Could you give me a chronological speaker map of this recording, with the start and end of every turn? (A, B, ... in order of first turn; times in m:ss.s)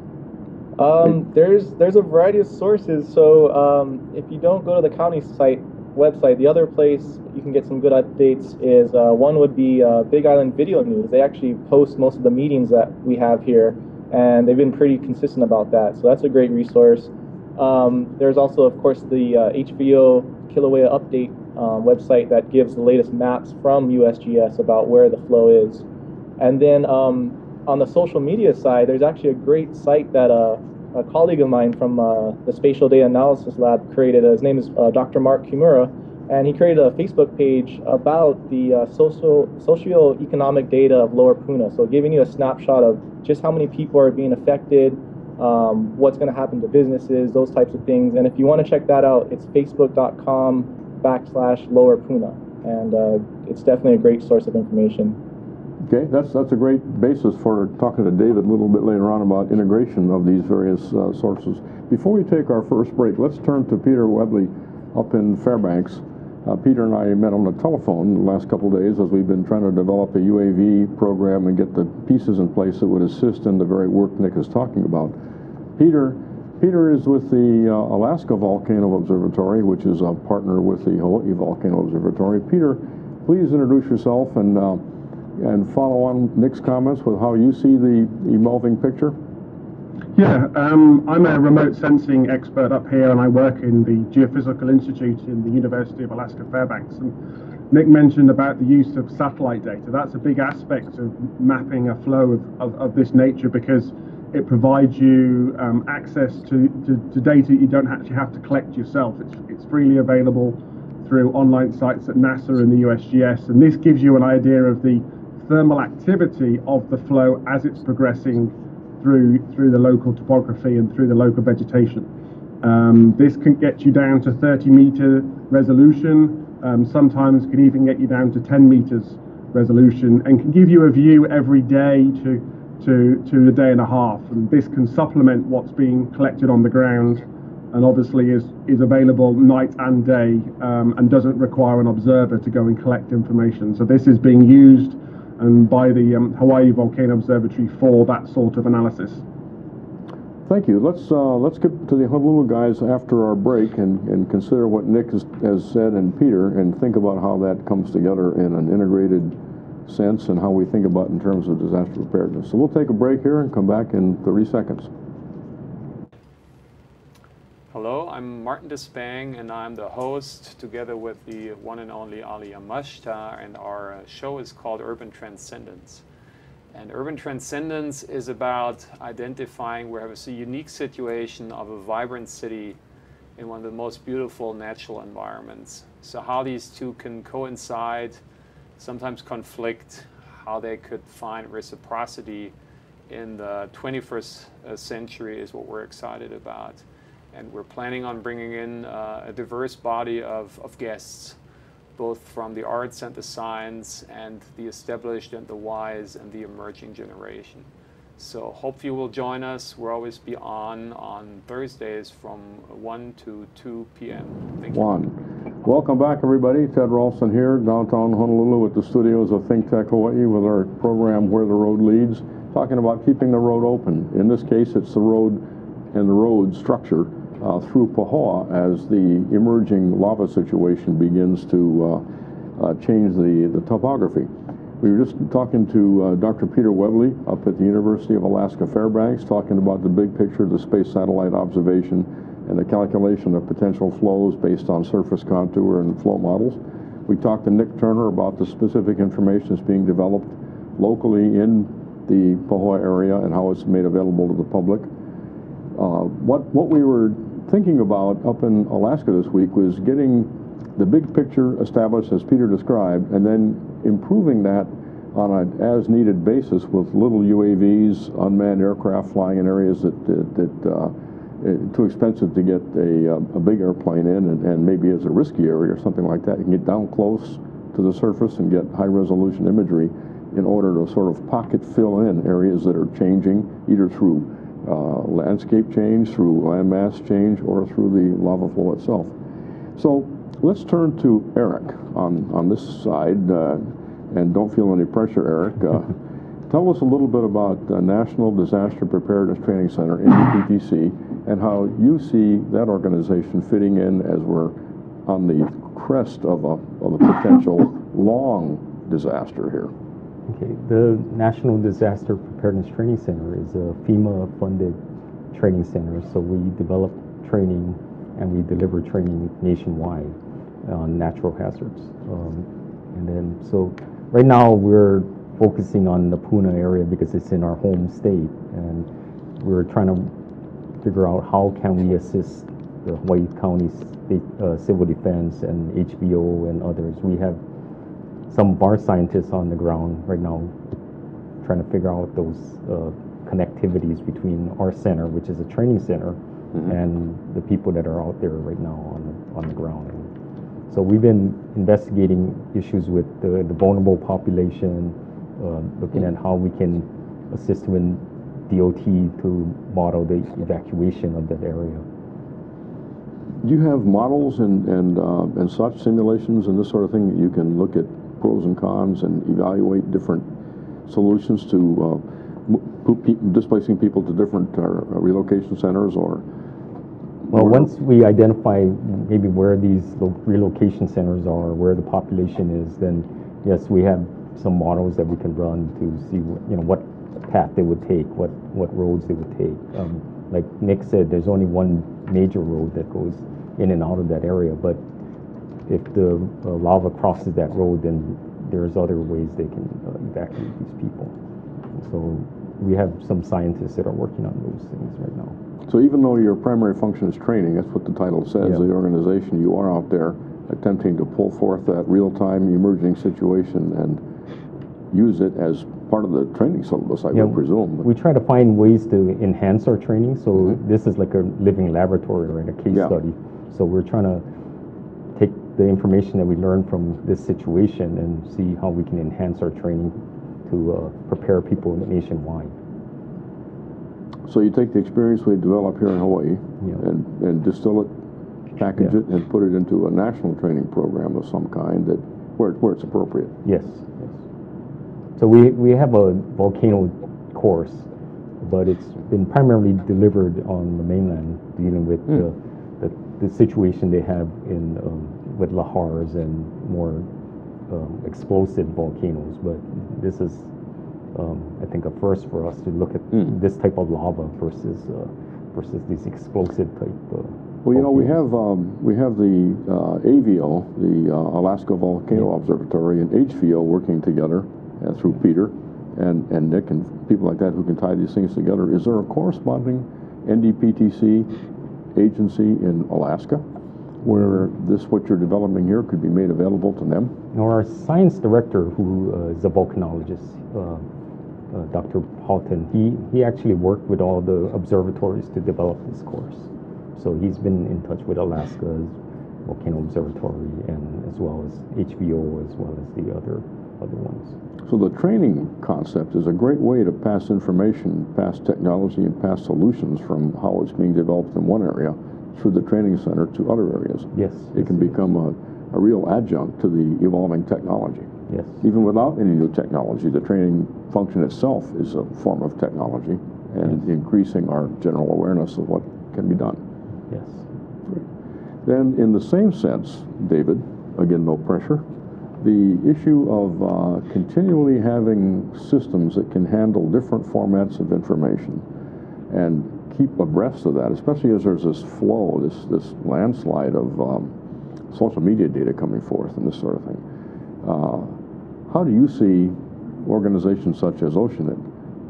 0:00.8-0:25.8 A
0:26.4-0:55.2 A
0:55.8-1:15.2 B
1:15.8-1:24.8 B
1:25.4-1:29.2 B
1:30.2-1:37.2 C
1:37.7-2:02.1 C
2:02.6-2:29.2 C
2:30.4-2:44.9 B
2:47.7-2:56.0 D
2:56.7-3:02.8 D
3:03.4-3:08.2 D
3:08.8-3:12.5 D
3:13.1-3:21.4 D
3:22.0-3:34.8 D
3:34.7-3:52.0 B
3:52.6-4:14.9 B
4:15.8-4:49.2 B
4:49.8-4:56.0 B
4:56.5-5:09.7 B
5:10.3-5:14.8 E
5:15.3-5:28.9 E
5:29.4-5:30.1 E
5:30.8-5:37.4 E
5:38.3-5:40.5 E
5:41.4-5:50.1 E
5:50.7-6:01.8 E
6:03.4-6:10.3 B
6:10.9-6:16.2 B
6:17.3-6:17.7 B
6:17.3-6:34.8 E
6:35.7-6:41.2 E
6:41.7-6:45.4 E
6:45.7-6:54.0 B
6:54.9-6:57.9 B
6:57.1-7:04.2 E
7:02.7-7:03.0 B
7:05.2-7:12.6 E
7:14.3-7:18.0 B
7:18.6-7:23.4 B
7:23.4-7:24.2 E
7:25.2-7:27.9 E
7:28.4-7:37.1 E
7:37.7-7:40.5 E
7:41.2-7:48.2 E
7:47.6-8:01.4 B
8:02.0-8:03.4 B
8:04.0-8:07.2 B
8:07.3-8:10.8 E
8:11.5-8:24.4 E
8:24.7-8:38.1 B
8:34.2-8:35.0 E
8:38.3-8:38.6 E
8:38.6-8:46.6 B
8:47.1-8:47.4 E
8:48.6-8:51.8 B
8:52.4-8:58.6 B
8:59.3-9:04.3 B
9:04.9-9:07.0 B
9:07.6-9:11.6 B